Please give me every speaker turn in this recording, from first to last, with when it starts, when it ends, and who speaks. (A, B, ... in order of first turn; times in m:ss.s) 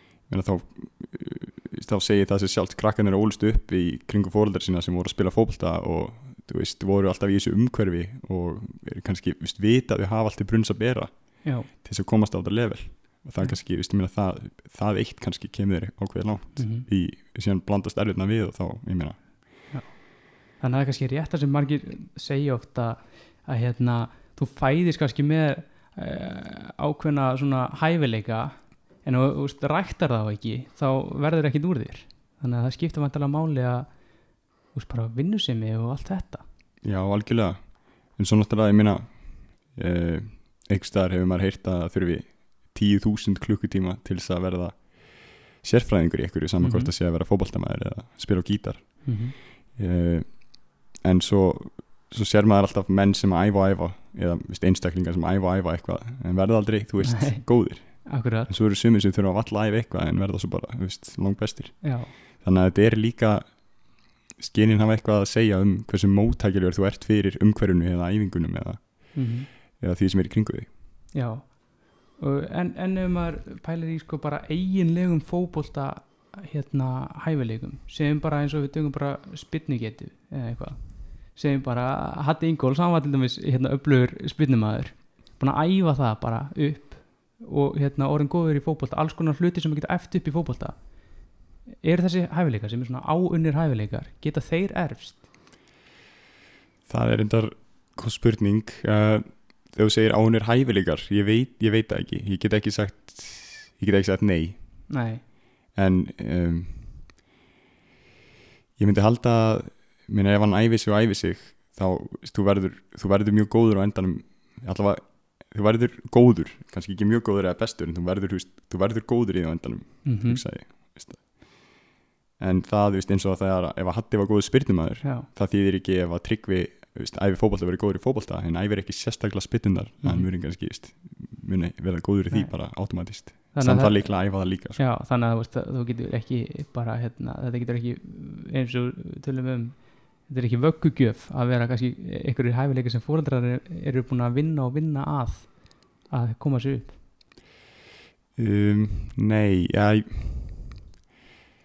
0:00.2-0:19.5 A
0:16.6-0:16.8 B
0:19.7-0:34.1 B
0:34.7-0:36.4 B
0:36.8-1:10.7 A
0:46.6-0:46.9 B
0:49.0-0:49.3 B
0:57.0-0:58.5 B
1:01.8-1:02.1 B
1:09.1-1:09.5 B
1:11.1-1:31.2 B
1:31.8-1:35.3 B
1:36.8-1:45.0 A
1:44.9-1:45.2 B
1:45.7-1:47.1 A
1:48.8-2:01.8 A
2:00.0-2:00.4 B
2:02.4-2:14.8 A
2:10.0-2:10.3 B
2:12.3-2:26.9 B
2:28.4-2:30.7 A